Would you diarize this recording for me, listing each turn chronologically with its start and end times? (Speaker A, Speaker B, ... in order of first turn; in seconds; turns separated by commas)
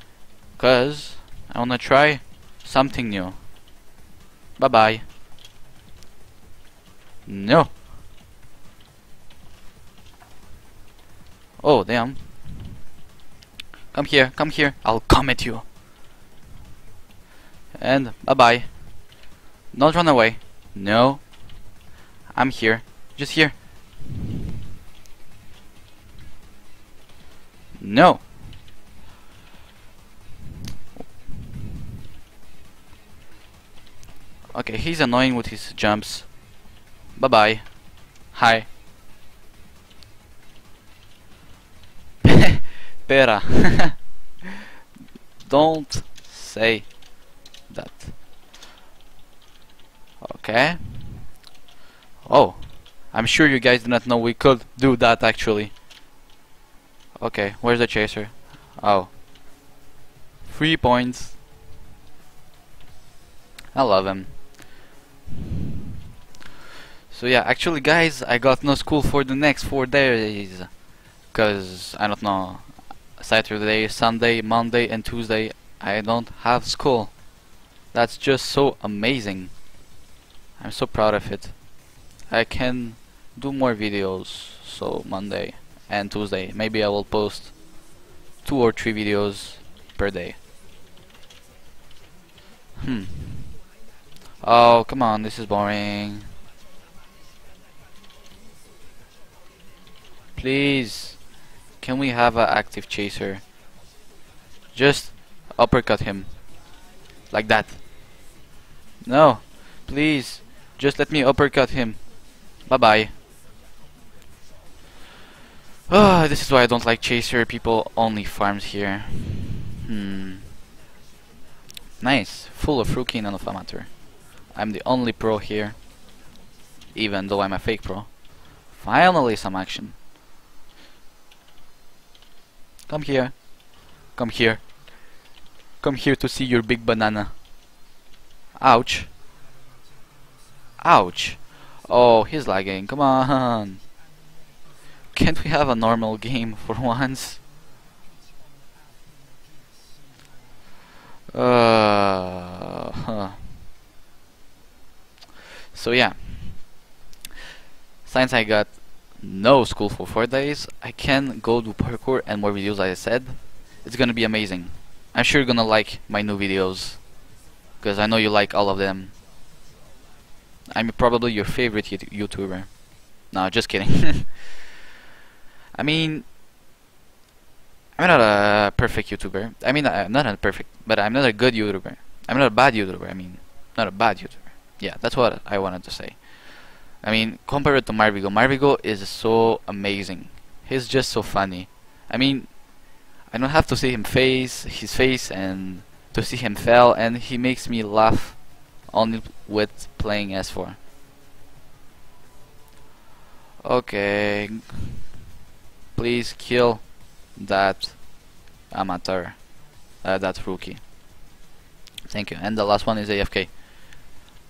Speaker A: 0.6-3.4, Speaker A: 4.6-5.1, Speaker A: 7.2-7.7, Speaker A: 11.6-12.7, Speaker A: 13.9-15.7, Speaker A: 17.7-19.2, Speaker A: 19.7-21.6, Speaker A: 22.3-23.6, Speaker A: 27.8-28.3, Speaker A: 34.5-36.5, Speaker A: 37.1-38.7, Speaker A: 43.0-44.1, Speaker A: 45.4-48.1, Speaker A: 50.2-51.3, Speaker A: 52.2-55.7, Speaker A: 57.2-59.1, Speaker A: 60.4-61.4, Speaker A: 63.7-64.4, Speaker A: 67.1-77.3, Speaker A: 77.9-79.7, Speaker A: 80.6-81.7, Speaker A: 82.3-87.7, Speaker A: 88.4-90.4, Speaker A: 92.8-93.5, Speaker A: 94.4-96.3, Speaker A: 100.3-101.2, Speaker A: 101.8-103.4, Speaker A: 104.7-106.5, Speaker A: 107.3-107.8, Speaker A: 109.0-113.1, Speaker A: 115.9-120.5, Speaker A: 122.0-124.0, Speaker A: 124.5-125.8, Speaker A: 126.9-129.9, Speaker A: 132.9-134.8, Speaker A: 135.8-137.3, Speaker A: 138.6-139.1, Speaker A: 140.8-143.8, Speaker A: 145.1-147.4, Speaker A: 151.3-153.3, Speaker A: 155.7-156.7, Speaker A: 158.0-167.0, Speaker A: 167.8-169.1, Speaker A: 170.7-174.6, Speaker A: 175.7-176.3, Speaker A: 178.0-200.8, Speaker A: 203.6-204.8, Speaker A: 205.9-210.8, Speaker A: 212.1-213.9